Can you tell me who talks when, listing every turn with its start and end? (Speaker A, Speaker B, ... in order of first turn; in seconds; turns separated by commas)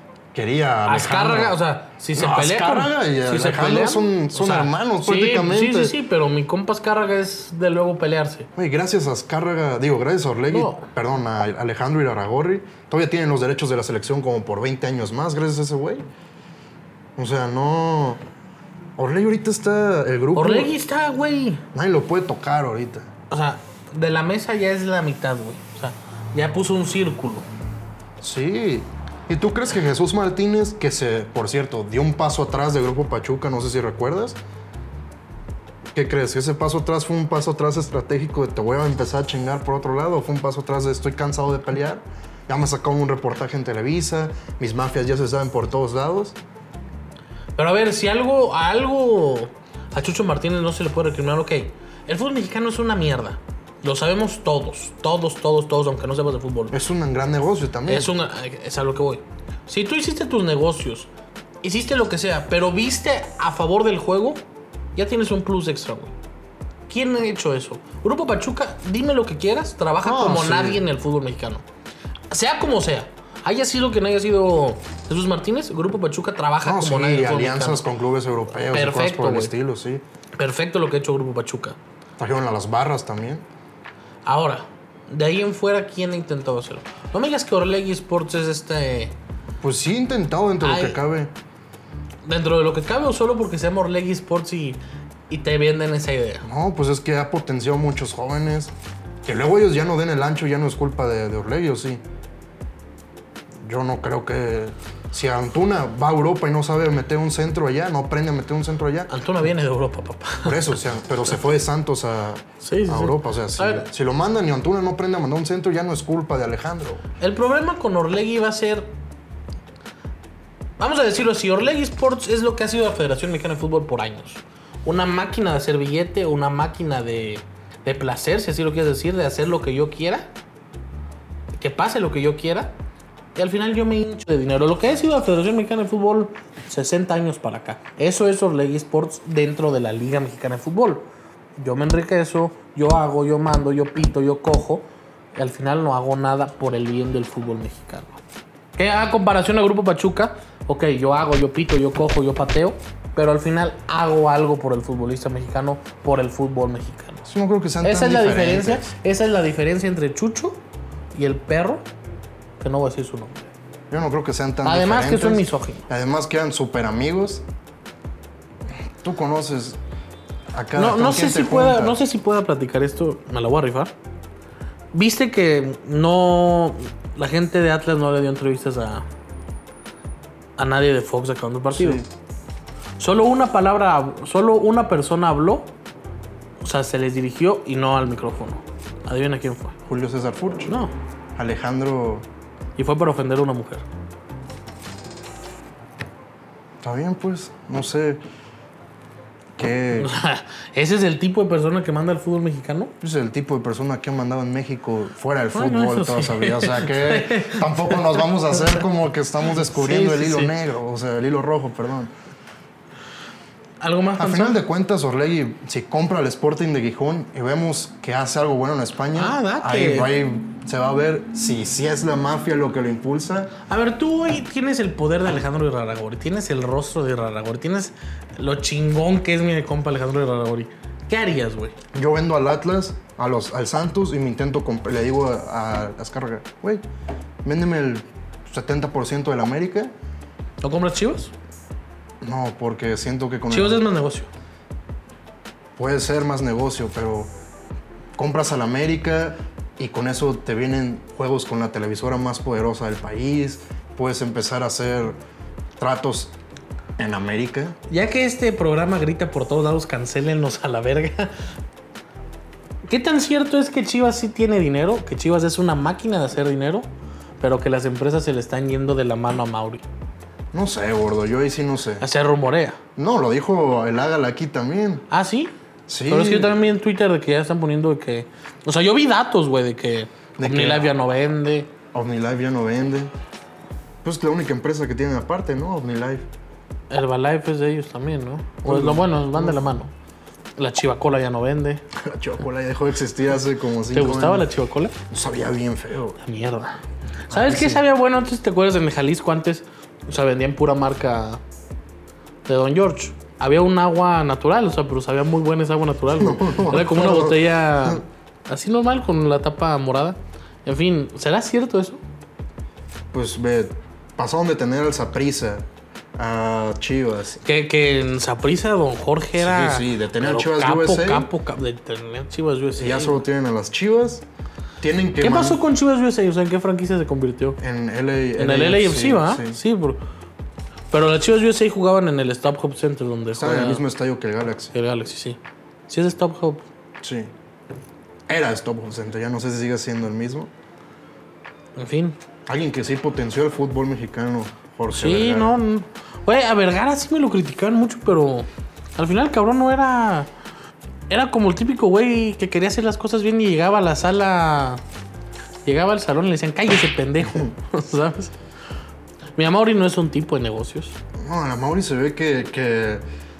Speaker A: 0.3-1.6, Speaker B: 0.8-8.5, Speaker A: 2.1-6.0, Speaker A: 8.5-16.1, Speaker B: 10.5-10.8, Speaker A: 17.1-18.2, Speaker A: 19.0-20.7, Speaker B: 20.3-21.6, Speaker A: 21.7-23.1, Speaker B: 23.3-27.5, Speaker A: 28.2-34.4, Speaker A: 35.9-46.4, Speaker B: 47.5-56.8, Speaker A: 56.7-58.1, Speaker B: 57.9-61.1, Speaker B: 61.6-64.4, Speaker B: 64.9-66.1, Speaker B: 66.9-71.6, Speaker A: 70.0-70.8, Speaker B: 72.3-77.9, Speaker A: 76.6-80.0, Speaker B: 78.7-79.5, Speaker B: 80.3-81.8, Speaker A: 82.2-83.4, Speaker B: 84.2-89.1, Speaker A: 89.6-91.3, Speaker B: 90.6-91.0, Speaker B: 92.2-96.5, Speaker A: 96.4-98.7, Speaker A: 99.2-102.0, Speaker A: 103.6-109.1, Speaker B: 109.1-110.7, Speaker A: 110.4-117.0, Speaker B: 112.6-113.8, Speaker B: 117.2-118.9, Speaker B: 120.8-130.3, Speaker B: 131.5-132.7, Speaker B: 133.3-148.2, Speaker B: 148.8-157.2, Speaker A: 157.2-158.9, Speaker B: 157.8-160.6, Speaker B: 161.1-161.9, Speaker B: 162.6-163.5, Speaker A: 163.9-167.4, Speaker B: 164.6-165.8, Speaker A: 168.8-169.8, Speaker A: 170.5-172.0, Speaker B: 170.7-173.9, Speaker B: 174.9-179.0, Speaker B: 180.6-182.0, Speaker A: 181.8-182.1, Speaker B: 183.0-185.7, Speaker B: 186.6-189.8, Speaker A: 189.8-190.7, Speaker B: 190.7-190.9, Speaker A: 191.3-192.2, Speaker B: 192.8-193.8, Speaker A: 196.8-198.2, Speaker A: 199.6-200.1, Speaker B: 200.0-202.9, Speaker A: 203.0-212.1, Speaker B: 205.5-208.8, Speaker B: 209.6-210.5, Speaker B: 213.8-214.6, Speaker A: 214.2-223.6, Speaker B: 219.1-220.1, Speaker B: 223.7-231.7, Speaker A: 231.9-236.8, Speaker A: 237.4-239.9, Speaker B: 240.6-241.3, Speaker A: 242.2-243.8, Speaker B: 243.5-244.3, Speaker A: 245.8-247.3, Speaker A: 248.2-255.2, Speaker A: 255.8-256.3, Speaker A: 257.0-257.8, Speaker B: 257.9-261.3, Speaker B: 262.8-266.9, Speaker B: 267.4-269.8, Speaker A: 270.5-272.0, Speaker B: 272.0-272.8, Speaker A: 272.9-275.0, Speaker B: 275.1-275.5, Speaker A: 275.9-276.6, Speaker B: 276.1-281.7, Speaker A: 280.4-280.9, Speaker A: 281.9-283.1, Speaker A: 284.0-286.2, Speaker B: 286.9-289.9, Speaker A: 288.6-289.7, Speaker B: 290.6-291.8, Speaker A: 291.9-294.5, Speaker B: 293.9-294.9, Speaker A: 295.1-296.2, Speaker B: 296.2-301.4, Speaker A: 297.3-297.8, Speaker B: 302.4-312.0, Speaker A: 306.2-308.0, Speaker A: 313.1-317.4, Speaker B: 317.4-323.2, Speaker A: 319.4-321.3, Speaker A: 322.8-324.2, Speaker A: 324.8-325.6, Speaker B: 325.2-327.6, Speaker A: 327.6-329.6, Speaker B: 328.4-330.0, Speaker B: 330.9-333.8, Speaker A: 333.3-334.7, Speaker B: 334.7-336.6, Speaker A: 337.0-337.3, Speaker A: 338.3-340.5, Speaker B: 341.8-342.2, Speaker A: 342.5-345.5, Speaker B: 344.9-350.3, Speaker B: 351.1-354.8, Speaker B: 355.6-358.3, Speaker B: 359.4-361.0, Speaker A: 361.2-363.0